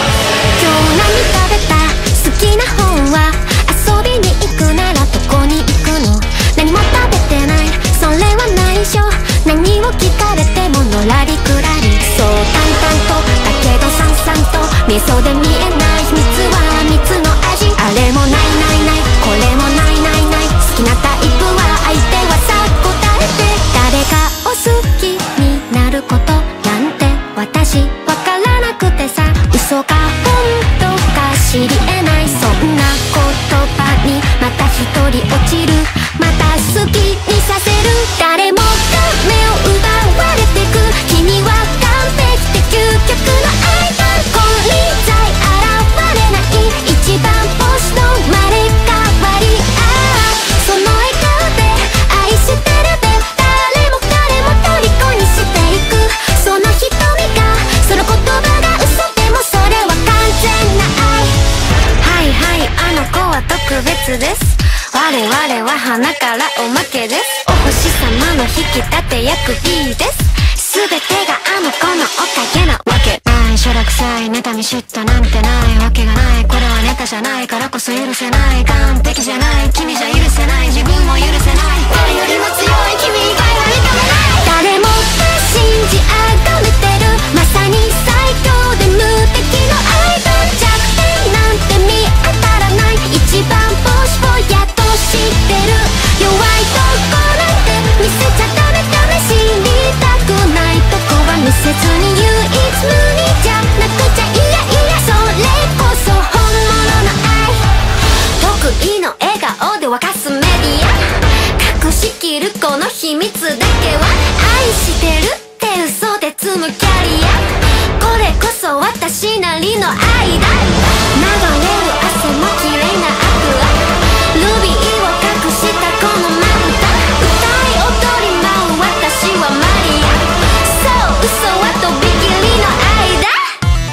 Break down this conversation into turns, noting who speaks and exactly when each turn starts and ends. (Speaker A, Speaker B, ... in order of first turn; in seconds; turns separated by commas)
Speaker A: 0.6-61.4, Speaker A: 62.0-107.7, Speaker A: 108.4-133.5